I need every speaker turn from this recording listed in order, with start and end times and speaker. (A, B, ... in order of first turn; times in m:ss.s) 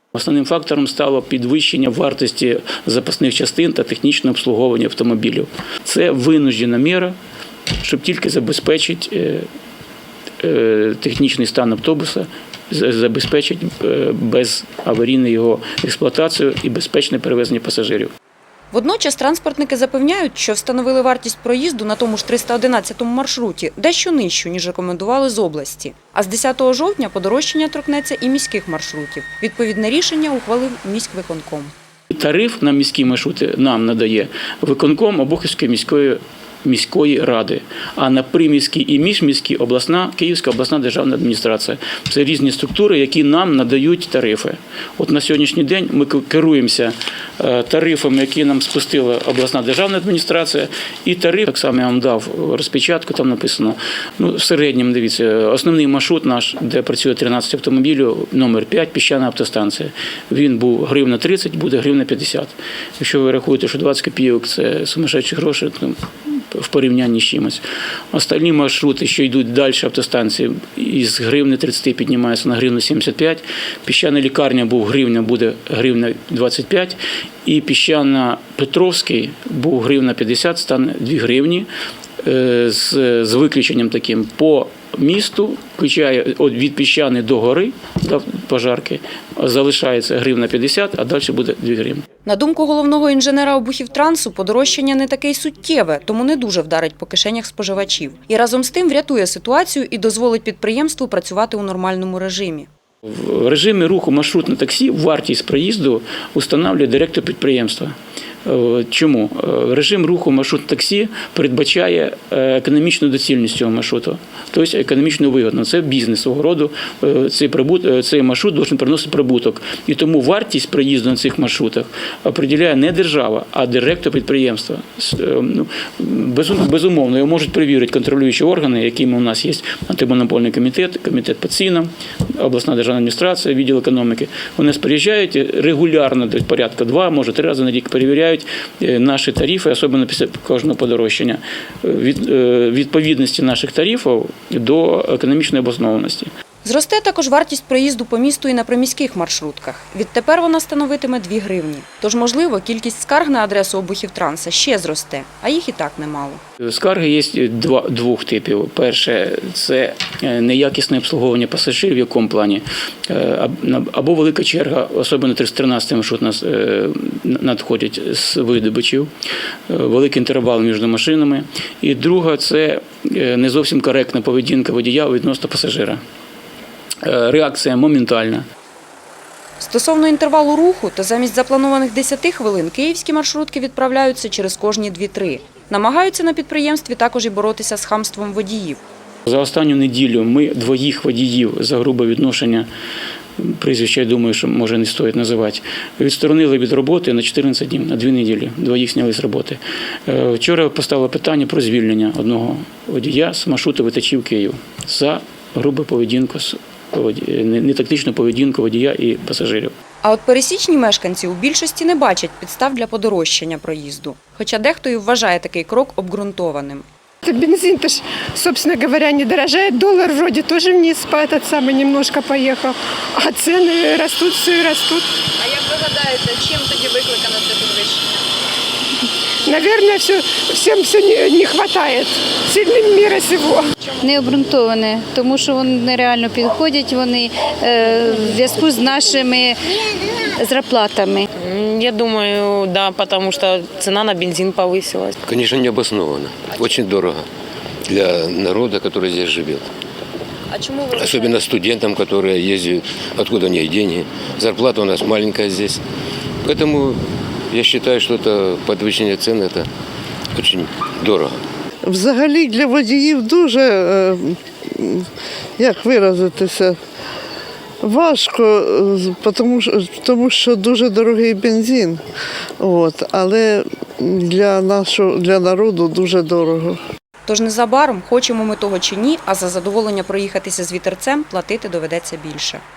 0:00.1-0:07.1 A
0:07.8-0:09.5 A
0:10.4-0:18.1 A
0:18.7-0:31.7 B
0:32.1-1:21.7 A
1:22.2-1:32.0 A
1:32.2-1:42.7 B
1:43.1-1:47.9 A
1:48.4-2:26.3 A
2:26.6-2:36.4 B
2:36.6-2:49.1 A
2:49.7-2:56.0 A
2:57.0-2:58.4 A
2:59.6-3:08.8 B
3:09.2-3:12.7 A
3:13.4-3:29.7 A
3:30.0-3:36.8 B
3:37.2-3:45.0 C
3:45.4-3:48.0 B
3:49.6-3:53.6 C
3:54.0-3:59.6 D
4:00.4-4:01.3 D
4:01.4-4:05.2 E
4:05.2-4:07.2 F
4:07.9-4:09.6 F
4:10.5-4:11.2 B
4:10.9-4:15.8 F
4:16.4-4:17.0 F
4:17.5-4:19.7 F
4:20.3-4:21.4 F
4:21.8-4:25.0 G
4:25.6-4:26.8 G
4:27.8-4:32.0 G
4:32.6-4:36.8 G
4:37.3-4:42.6 B